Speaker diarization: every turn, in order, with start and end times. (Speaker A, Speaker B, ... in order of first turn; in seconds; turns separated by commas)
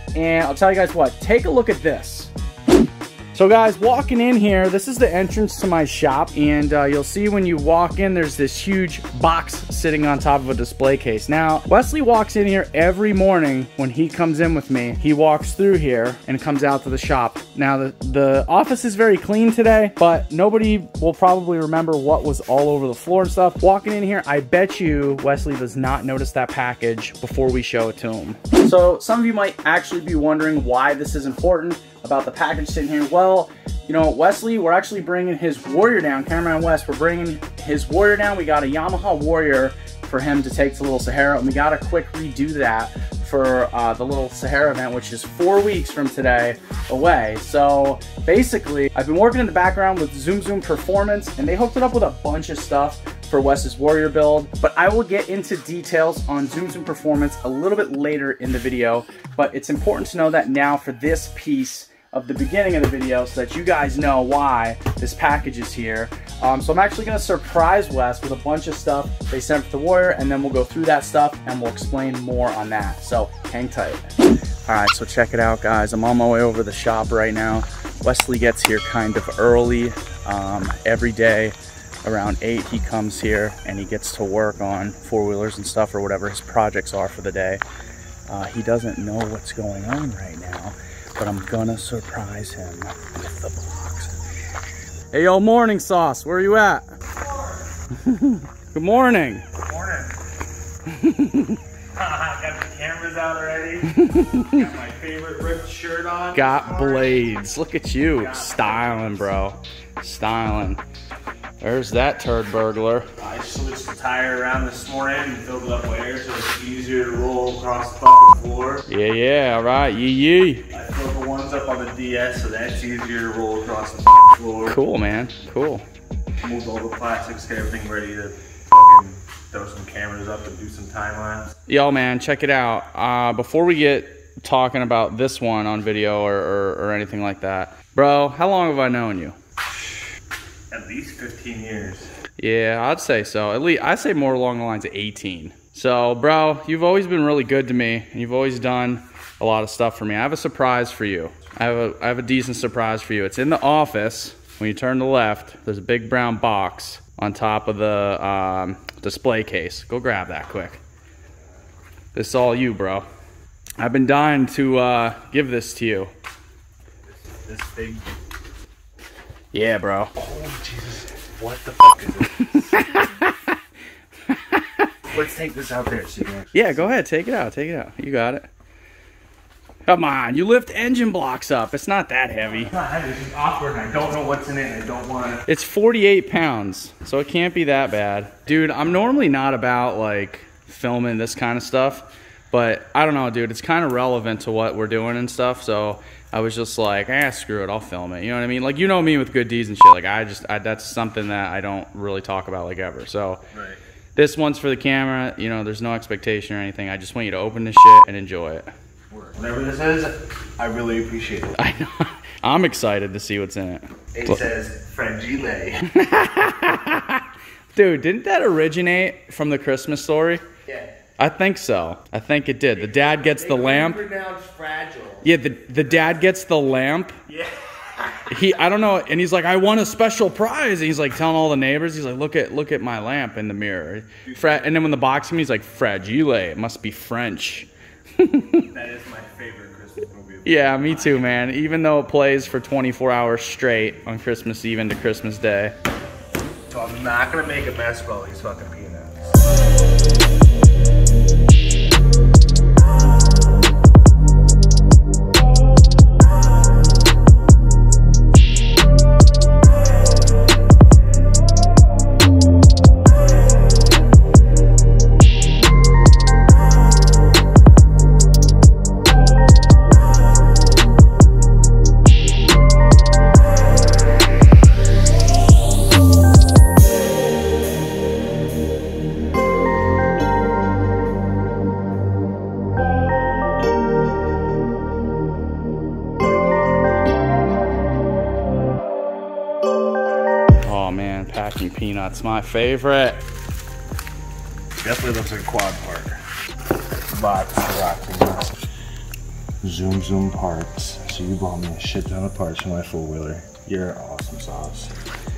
Speaker A: 0.1-2.3, Speaker A: 3.3-74.1, Speaker A: 74.6-87.6, Speaker A: 88.3-94.2, Speaker A: 95.1-96.9, Speaker A: 97.9-99.5, Speaker B: 99.6-100.2, Speaker A: 100.9-101.6, Speaker B: 101.9-107.2, Speaker A: 103.9-104.6, Speaker A: 106.3-110.8, Speaker B: 108.1-109.3, Speaker A: 111.6-113.1, Speaker B: 113.2-118.8, Speaker A: 118.9-120.7, Speaker B: 120.7-124.8, Speaker A: 124.7-125.8, Speaker B: 126.4-131.5, Speaker A: 131.7-139.3, Speaker B: 140.7-142.1, Speaker A: 142.4-160.8, Speaker A: 162.1-163.0, Speaker A: 163.8-166.1, Speaker B: 167.2-168.1, Speaker A: 169.5-170.1, Speaker B: 170.2-172.6, Speaker A: 172.4-173.6, Speaker A: 174.3-174.9, Speaker B: 175.1-176.9, Speaker A: 176.5-178.5, Speaker A: 179.8-182.7, Speaker B: 182.5-185.4, Speaker A: 185.4-203.4, Speaker B: 203.5-203.8, Speaker A: 204.2-208.7, Speaker B: 209.1-211.5, Speaker A: 211.6-214.4, Speaker B: 214.1-215.9, Speaker A: 215.9-220.4, Speaker B: 220.7-220.9, Speaker A: 221.2-224.0, Speaker B: 222.8-225.3, Speaker A: 225.2-227.2, Speaker B: 227.3-228.6, Speaker A: 228.3-238.7, Speaker B: 234.2-234.8, Speaker B: 238.6-241.4, Speaker A: 240.4-245.7, Speaker B: 246.7-249.4, Speaker A: 290.6-293.2, Speaker B: 294.8-296.2, Speaker B: 297.1-298.5, Speaker B: 299.6-304.9